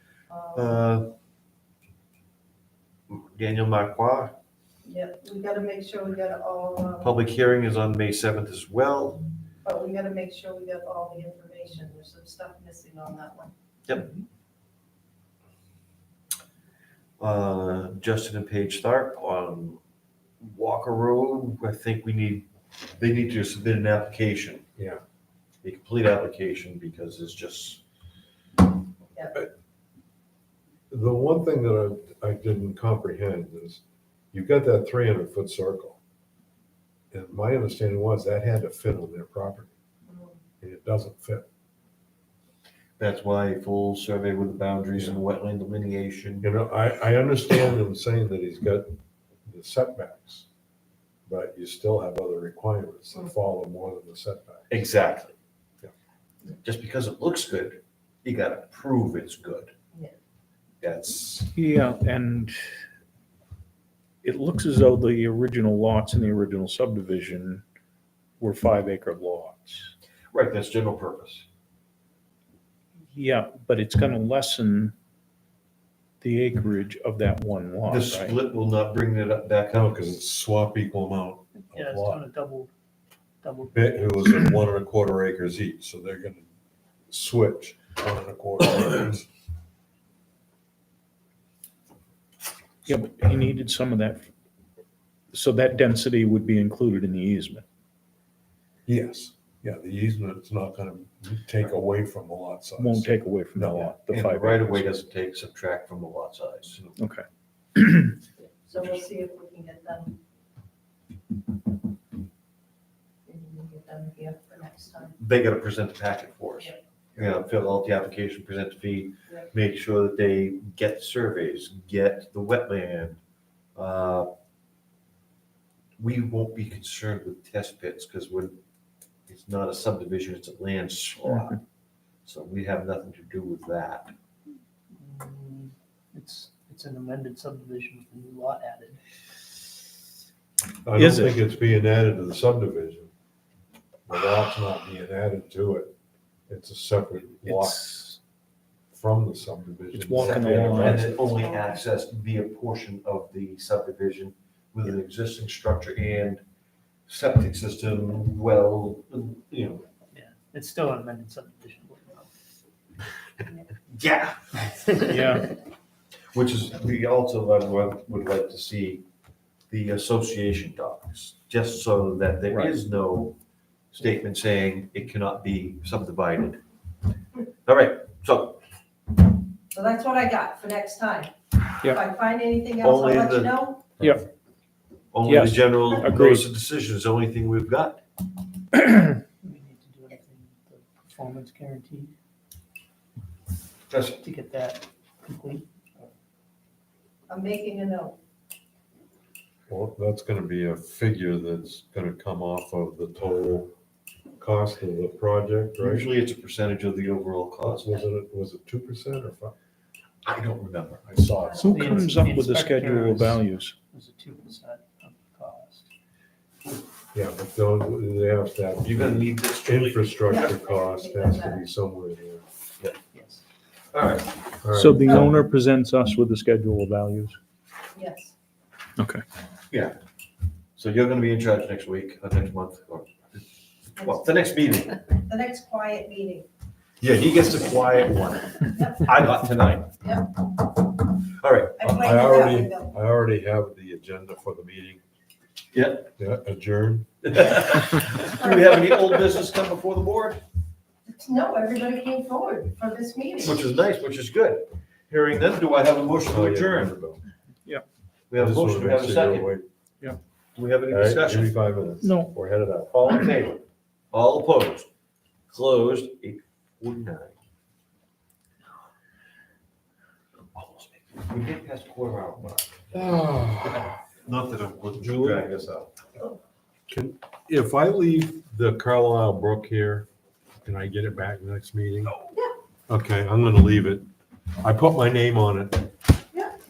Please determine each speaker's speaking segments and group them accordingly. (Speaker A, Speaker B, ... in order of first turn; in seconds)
Speaker A: 0.3-0.7, 4.8-7.2, 9.6-13.5, 40.1-40.4, 108.7-110.2, 113.3-115.2, 151.0-151.7, 179.7-183.9, 197.3-198.2, 211.4-212.0, 220.3-221.6, 225.0-225.3, 227.9-228.3, 234.0-234.4, 235.1-236.5, 238.7-239.1, 241.8-242.9, 251.1-253.6
Speaker B: 0.6-1.1, 3.1-4.3, 7.0-9.2, 17.2-19.8, 20.4-24.6, 25.6-27.8, 43.0-46.5, 54.7-55.4, 56.6-59.7, 60.8-61.5, 70.3-71.5, 77.9-80.1, 104.1-106.8, 115.2-123.2, 123.8-124.3, 126.0-128.6, 129.3-131.6, 132.2-134.1, 150.2-156.4, 157.1-159.8, 163.9-165.1, 166.3-169.1, 169.7-173.3, 173.9-176.6, 177.7-178.6, 182.8-184.2, 185.1-188.0, 193.9-194.2, 205.8-208.0, 210.2-211.1, 218.8-220.1, 223.9-224.3, 229.7-230.0, 230.8-235.0, 237.0-240.0, 241.3-242.0, 245.7-246.1, 247.2-250.4, 253.4-256.9, 258.3-259.5, 260.6-261.6, 262.9-264.9, 265.5-267.4, 270.6-273.1, 273.7-275.9
Speaker C: 24.8-25.0, 30.9-36.0, 37.1-39.7, 40.6-41.5, 46.4-49.0, 49.5-50.5, 51.3-54.8, 79.7-82.2, 83.7-86.5, 87.1-89.3, 98.9-104.0, 140.8-143.1, 144.1-145.9, 146.5-148.0, 148.9-151.2, 199.7-203.7, 204.4-206.1, 207.6-209.5, 211.1-211.9, 217.1-222.4, 224.6-225.3, 241.8-245.0, 246.2-247.6, 256.2-257.2, 258.3-259.6, 260.9-262.9, 272.9-274.0, 275.0-275.5, 276.9-280.1, 280.6-282.1, 282.9-284.1, 284.6-285.9
Speaker D: 61.5-62.6, 64.2-67.6, 68.4-69.9, 73.1-74.9, 76.2-78.3, 92.8-94.3, 95.3-97.7, 102.8-104.9, 107.0-107.2, 107.8-108.2, 131.2-131.6, 141.0-141.4, 147.5-148.2, 149.9-151.2, 165.1-165.5, 172.5-172.7, 185.2-186.5, 211.6-213.8, 224.7-227.4, 229.0-229.2, 262.0-262.3
Speaker E: 81.7-82.7, 83.4-84.3, 134.9-139.0, 160.1-162.3, 164.6-165.3, 189.4-192.1, 194.2-196.1, 211.7-215.9, 223.1-223.4